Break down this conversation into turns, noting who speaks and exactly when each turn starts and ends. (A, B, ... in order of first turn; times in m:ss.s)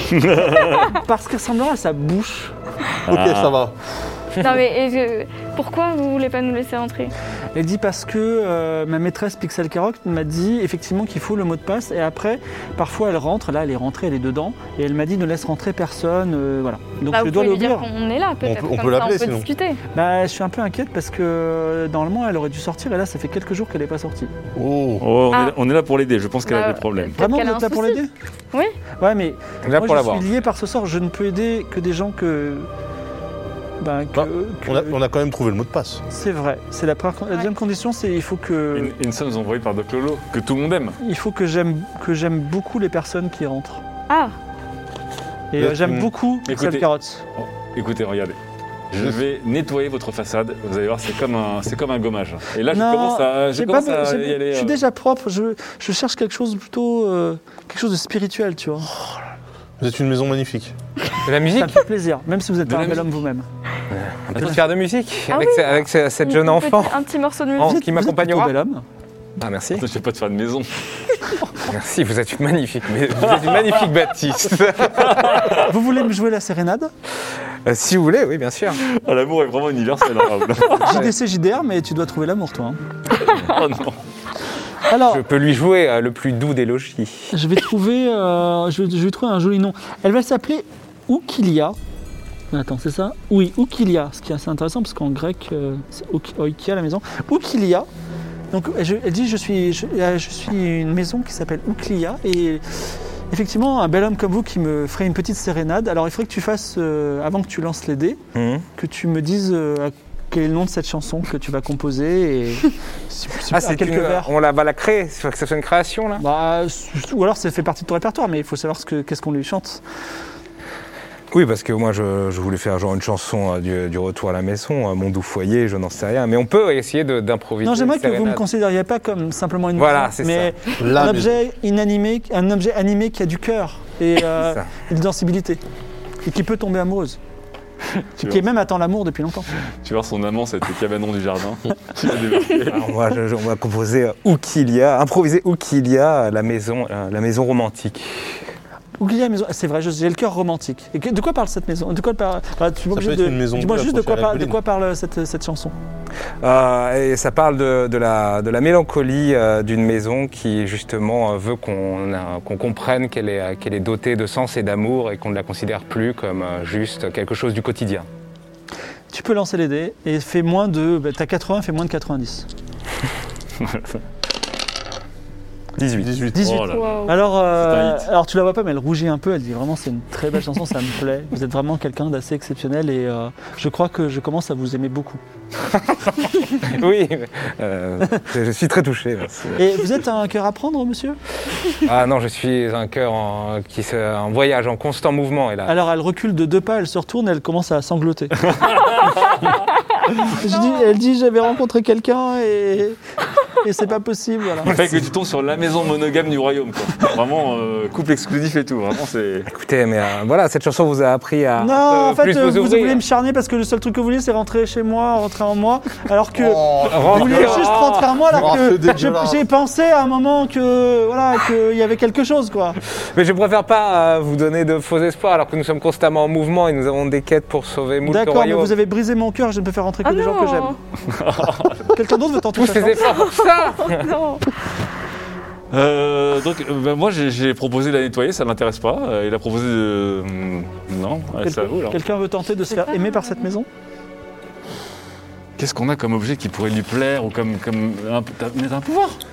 0:00.1-0:00.9 A
0:00.8-0:02.5 B
0:03.1-0:03.6 A
0:03.1-0:03.7 C
0:04.4-0:07.1 D
0:07.5-0:17.9 B
0:17.1-0:19.8 D
0:18.4-0:19.5 C
0:19.9-0:24.3 B
0:24.6-0:25.0 C
0:25.0-0:27.2 A
0:25.3-0:25.6 D
0:26.4-0:28.0 D
0:27.2-0:28.1 B
0:28.5-0:28.8 D
0:29.0-0:32.7 B
0:29.6-0:30.3 E
0:33.8-0:35.0 B
0:34.2-0:36.0 C
0:36.1-0:38.9 B
0:38.7-0:41.0 A
0:41.0-0:43.8 B
0:44.1-0:44.3 D
0:45.5-0:47.2 B
0:45.6-0:46.1 C
0:46.5-0:46.9 A
0:47.4-0:48.4 A
0:48.9-0:54.8 A
0:52.7-0:58.9 B
0:59.8-1:00.7 C
1:01.2-1:01.8 E
1:01.6-1:03.5 B
1:02.6-1:03.1 A
1:03.9-1:07.0 E
1:05.3-1:07.8 D
1:07.6-1:08.5 E
1:07.6-1:08.8 B
1:09.4-1:09.8 E
1:09.8-1:10.8 A
1:11.7-1:15.5 E
1:13.2-1:13.9 A
1:15.0-1:15.6 A
1:15.6-1:16.9 B
1:17.6-1:18.8 E
1:18.8-1:21.0 A
1:20.8-1:22.8 B
1:23.2-1:24.0 A
1:24.9-1:25.2 B
1:25.0-1:27.3 E
1:27.3-1:31.8 B
1:32.5-1:37.9 B
1:38.5-1:48.2 B
1:48.3-1:48.6 E
1:48.8-1:54.3 B
1:53.5-1:56.2 E
1:56.2-1:59.8 B
2:01.3-2:08.4 E
2:07.6-2:15.6 B
2:09.8-2:10.5 E
2:10.8-2:11.3 C
2:14.4-2:14.7 E
2:16.2-2:17.2 B
2:18.0-2:18.4 A
2:18.2-2:19.5 B
2:19.8-2:22.9 A
2:22.7-2:28.4 E
2:29.0-2:35.7 B
2:32.9-2:34.6 C
2:36.4-2:48.1 E
2:49.1-2:52.5 B
2:53.6-2:54.0 A
2:55.8-2:56.1 E
2:56.0-2:56.6 C
2:56.3-3:05.2 B
2:56.4-2:57.0 A
2:56.7-2:57.2 D
2:57.6-2:58.0 A
3:05.7-3:09.8 E
3:09.6-3:11.2 B
3:11.8-3:15.7 E
3:15.6-3:18.4 B
3:18.5-3:19.3 A
3:20.2-3:23.0 B
3:20.4-3:20.9 D
3:23.6-3:24.7 B
3:24.7-3:29.5 A
3:29.5-3:33.0 E
3:31.6-3:42.8 B
3:36.3-3:39.4 C
3:36.8-3:38.5 E
3:43.0-3:48.7 E
3:48.0-3:50.7 B
3:50.0-3:50.8 D
3:51.1-3:51.9 A
3:51.9-3:53.1 B
3:52.6-3:54.1 E
3:53.1-3:54.4 D
3:55.7-4:02.0 A
4:01.4-4:03.7 B
4:02.7-4:03.4 D
4:05.6-4:09.2 A